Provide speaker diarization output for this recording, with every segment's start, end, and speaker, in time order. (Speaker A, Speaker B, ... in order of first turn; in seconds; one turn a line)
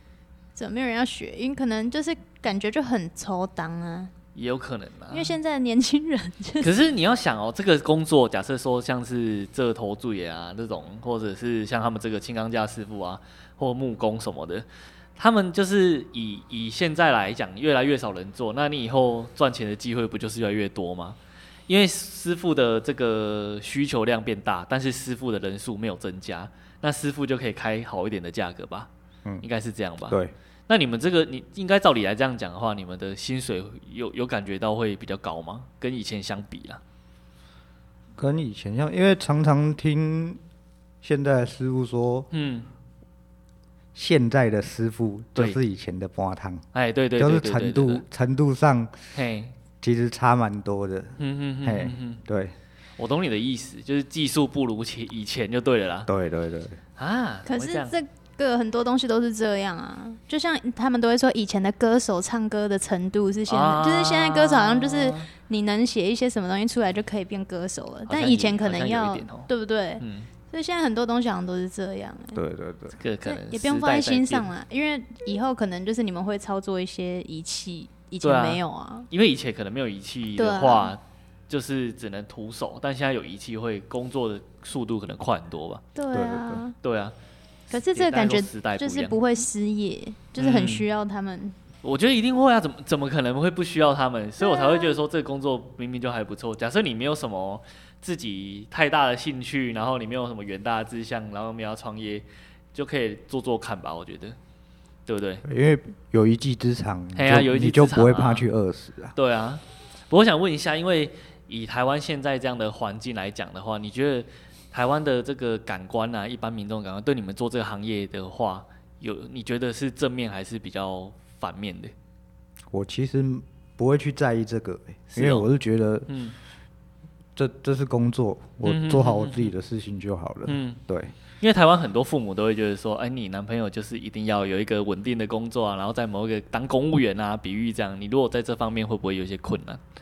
Speaker A: 0.6-4.1
Speaker B: 4.3-5.4
Speaker A: 5.1-6.7
Speaker B: 6.6-14.7
Speaker B: 15.2-21.2
Speaker B: 21.7-28.9
Speaker B: 29.4-36.8
Speaker C: 30.1-30.3
Speaker C: 38.2-40.4
Speaker C: 41.0-42.3
Speaker B: 42.3-42.7
Speaker C: 44.0-46.6
Speaker B: 46.7-48.0
Speaker C: 47.2-49.1
Speaker B: 49.1-49.5
Speaker C: 49.8-52.5
Speaker B: 51.2-52.2
Speaker B: 53.0-56.1
Speaker C: 56.1-56.8
Speaker B: 57.0-57.9
Speaker A: 57.5-72.4
Speaker B: 63.5-65.3
Speaker B: 68.1-69.5
Speaker B: 70.0-70.3
Speaker C: 72.3-73.0
Speaker B: 73.0-74.5
Speaker A: 73.3-79.1
Speaker B: 78.2-85.8
Speaker A: 80.4-81.0
Speaker A: 86.0-86.8
Speaker C: 86.1-86.6
Speaker B: 86.8-87.2
Speaker A: 87.7-91.6
Speaker B: 87.7-89.2
Speaker B: 90.4-90.9
Speaker B: 91.8-104.4
Speaker A: 94.4-95.0
Speaker B: 105.1-105.4
Speaker C: 105.4-109.1
Speaker B: 107.2-108.5
Speaker B: 109.2-121.9
Speaker C: 122.7-126.1
Speaker B: 125.1-125.5
Speaker B: 126.1-126.4
Speaker C: 127.4-131.1
Speaker B: 128.6-129.5
Speaker B: 130.5-130.8
Speaker B: 131.4-139.8